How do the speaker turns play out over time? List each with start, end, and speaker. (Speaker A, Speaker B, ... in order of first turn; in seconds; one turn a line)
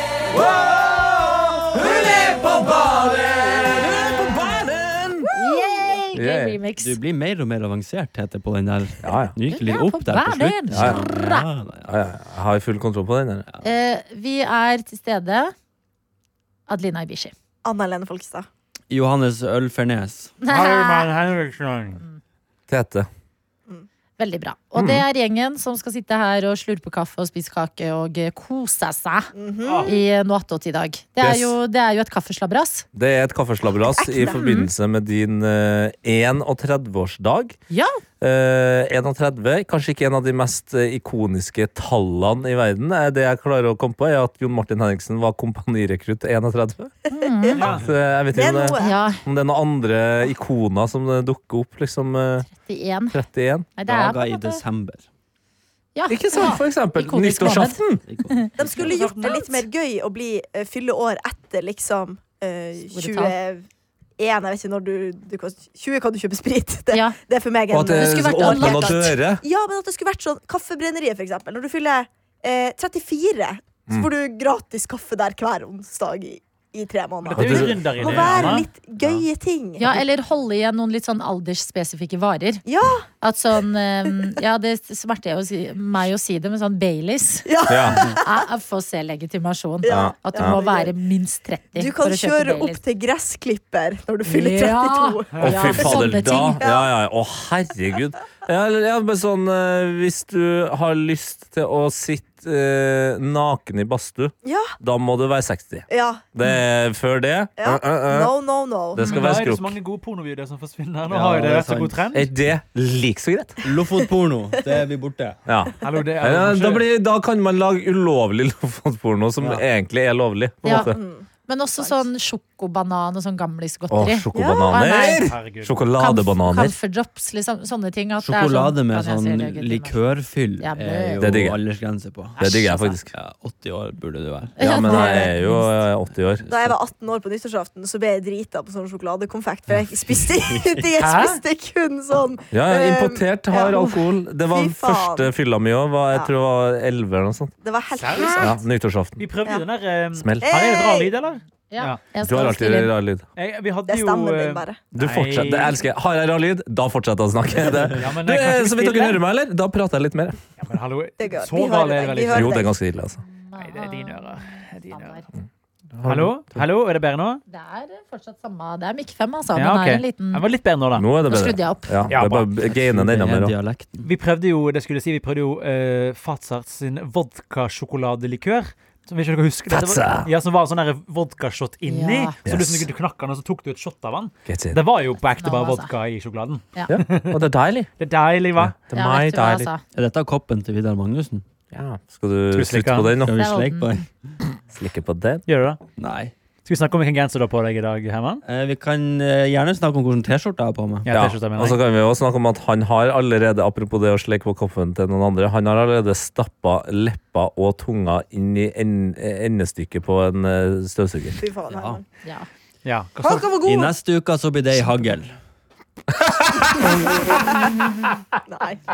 Speaker A: 0.3-5.3
Speaker B: 5.3-6.0
Speaker C: 5.3-7.0
Speaker A: 6.2-6.6
Speaker D: 6.8-11.9
Speaker A: 9.0-9.3
Speaker C: 9.4-11.5
Speaker A: 10.7-11.0
Speaker A: 11.9-13.5
Speaker C: 13.6-15.5
Speaker C: 16.7-17.3
Speaker B: 17.6-18.5
Speaker D: 18.9-20.4
Speaker C: 20.4-21.1
Speaker E: 20.5-22.0
Speaker A: 22.7-23.1
Speaker C: 24.2-29.3
Speaker A: 24.8-25.0
Speaker B: 29.4-29.9
Speaker E: 29.6-30.0
Speaker C: 29.8-32.9
Speaker A: 31.2-31.6
Speaker A: 33.0-37.6
Speaker B: 33.9-34.4
Speaker C: 34.2-34.7
Speaker C: 37.7-38.0
Speaker A: 38.2-47.0
Speaker C: 47.1-47.6
Speaker B: 47.1-47.7
Speaker E: 47.6-47.9
Speaker A: 47.7-52.5
Speaker B: 48.3-49.0
Speaker C: 48.8-49.2
Speaker C: 52.5-53.2
Speaker A: 53.1-53.7
Speaker C: 53.8-54.6
Speaker D: 53.9-55.0
Speaker C: 56.0-59.6
Speaker A: 56.1-58.0
Speaker D: 58.1-59.1
Speaker B: 58.6-63.7
Speaker C: 62.9-63.4
Speaker B: 64.2-80.0
Speaker C: 66.9-67.2
Speaker A: 67.7-69.4
Speaker C: 67.9-69.1
Speaker E: 77.2-78.7
Speaker A: 77.4-79.2
Speaker C: 79.8-82.6
Speaker B: 82.7-83.1
Speaker C: 83.2-92.8
Speaker B: 87.5-88.5
Speaker A: 87.7-88.0
Speaker B: 89.8-90.9
Speaker A: 89.9-90.6
Speaker B: 91.8-96.9
Speaker C: 94.3-96.6
Speaker A: 95.4-108.3
Speaker B: 104.5-104.7
Speaker B: 105.9-106.3
Speaker B: 107.6-109.0
Speaker A: 108.9-109.8
Speaker E: 109.0-112.3
Speaker D: 111.1-112.0
Speaker A: 112.1-113.6
Speaker D: 113.6-115.4
Speaker A: 115.5-121.0
Speaker E: 115.8-116.9
Speaker C: 120.6-120.9
Speaker B: 120.7-122.1
Speaker C: 121.5-125.3
Speaker A: 123.9-126.8
Speaker B: 124.3-124.9
Speaker E: 125.2-125.8
Speaker C: 126.0-130.0
Speaker D: 128.2-132.4
Speaker C: 130.6-131.4
Speaker A: 131.2-131.6
Speaker A: 132.4-133.1
Speaker C: 132.4-133.0
Speaker D: 133.1-135.0
Speaker C: 134.6-135.7
Speaker A: 134.6-136.4
Speaker D: 136.4-136.7
Speaker B: 136.5-145.3
Speaker D: 140.3-140.7
Speaker E: 141.0-141.4
Speaker A: 142.5-147.5
Speaker B: 147.6-148.6
Speaker E: 148.0-148.5
Speaker A: 148.3-149.3
Speaker E: 149.2-152.0
Speaker A: 150.2-150.5
Speaker B: 150.4-151.1
Speaker C: 151.7-152.9
Speaker A: 152.2-153.3
Speaker E: 153.4-155.8
Speaker B: 153.9-154.8
Speaker A: 154.9-160.4
Speaker E: 158.0-159.2
Speaker E: 160.6-162.7
Speaker B: 161.2-162.7
Speaker A: 162.3-163.2
Speaker C: 163.2-165.3
Speaker E: 163.6-165.2
Speaker A: 165.9-166.6
Speaker E: 166.0-167.4
Speaker C: 167.5-170.4
Speaker E: 169.6-171.1
Speaker A: 170.9-173.5
Speaker C: 171.2-172.0
Speaker D: 172.1-174.1
Speaker E: 172.1-172.5
Speaker E: 174.0-187.4
Speaker A: 179.7-180.3
Speaker C: 181.9-182.3
Speaker A: 182.5-182.9
Speaker A: 184.5-184.8
Speaker C: 185.4-185.9
Speaker A: 186.9-187.9
Speaker E: 188.0-188.7
Speaker A: 188.6-189.7
Speaker C: 188.9-189.8
Speaker D: 189.9-191.4
Speaker A: 191.7-193.4
Speaker E: 192.5-193.2
Speaker D: 193.2-194.1
Speaker C: 193.4-194.0
Speaker A: 194.7-195.4
Speaker E: 195.5-195.8
Speaker D: 196.0-196.3
Speaker E: 196.7-198.4
Speaker D: 198.4-201.1
Speaker E: 201.1-201.8
Speaker A: 201.1-211.4
Speaker B: 211.4-212.0
Speaker D: 211.7-212.0
Speaker E: 212.8-213.5
Speaker B: 213.2-213.9
Speaker D: 213.6-215.3
Speaker B: 218.5-218.8